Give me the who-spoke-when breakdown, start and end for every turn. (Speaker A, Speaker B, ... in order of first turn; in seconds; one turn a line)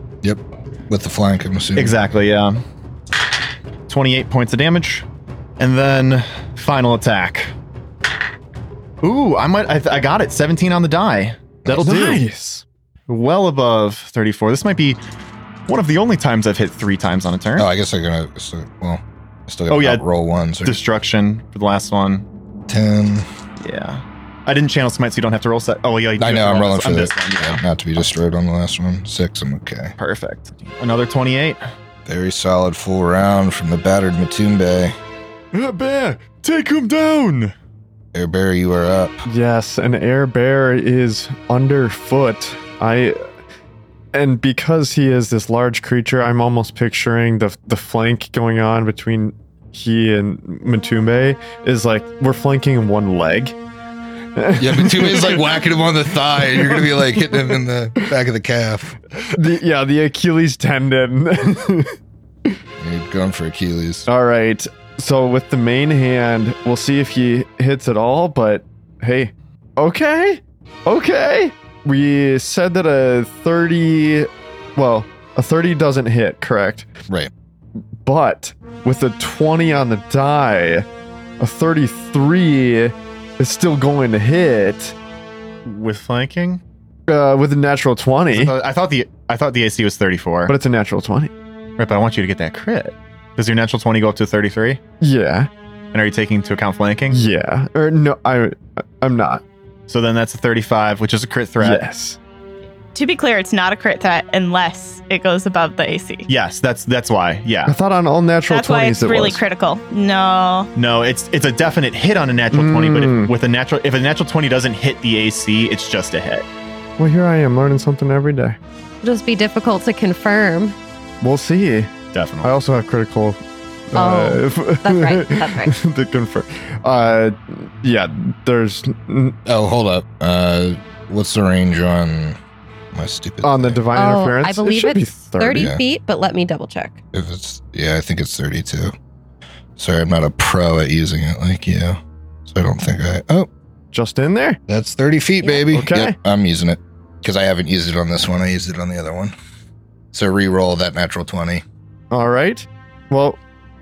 Speaker A: 0.2-2.0
Speaker B: 1.8-2.6
Speaker B: 3.9-5.1
Speaker B: 5.6-7.5
Speaker B: 9.0-12.2
Speaker A: 11.7-12.0
Speaker C: 11.8-12.6
Speaker B: 13.1-15.0
Speaker B: 15.7-17.7
Speaker A: 17.6-20.8
Speaker B: 19.7-20.0
Speaker B: 20.6-22.3
Speaker A: 22.7-23.3
Speaker B: 23.6-27.6
Speaker A: 26.2-29.9
Speaker B: 30.0-31.6
Speaker A: 32.1-35.0
Speaker C: 35.5-36.4
Speaker B: 36.2-37.5
Speaker A: 38.1-39.3
Speaker C: 39.3-43.2
Speaker C: 44.1-53.5
Speaker C: 54.4-55.7
Speaker A: 54.6-59.0
Speaker C: 56.4-57.3
Speaker C: 59.4-62.0
Speaker A: 62.8-64.1
Speaker C: 64.1-76.9
Speaker C: 78.0-80.9
Speaker C: 81.4-85.0
Speaker B: 85.7-86.6
Speaker C: 87.1-88.5
Speaker B: 88.3-90.5
Speaker C: 90.5-91.3
Speaker B: 91.8-94.8
Speaker C: 95.0-95.5
Speaker B: 95.9-97.2
Speaker C: 97.1-99.4
Speaker B: 99.9-101.8
Speaker C: 101.6-102.2
Speaker D: 102.9-106.3
Speaker B: 106.3-107.8
Speaker C: 107.7-109.4
Speaker D: 108.5-110.7
Speaker B: 110.8-116.5
Speaker C: 112.5-113.3
Speaker C: 117.0-118.6
Speaker E: 119.0-120.8
Speaker C: 121.2-121.9
Speaker B: 122.1-122.5
Speaker C: 122.4-123.4
Speaker C: 123.9-129.4
Speaker E: 124.0-125.8
Speaker A: 129.5-132.4
Speaker A: 132.9-133.8
Speaker C: 133.4-135.7
Speaker E: 133.9-137.0
Speaker A: 137.1-138.9
Speaker A: 139.8-143.5
Speaker C: 143.9-144.6
Speaker A: 144.7-149.3
Speaker C: 145.7-146.2
Speaker A: 150.1-151.6
Speaker C: 152.1-153.4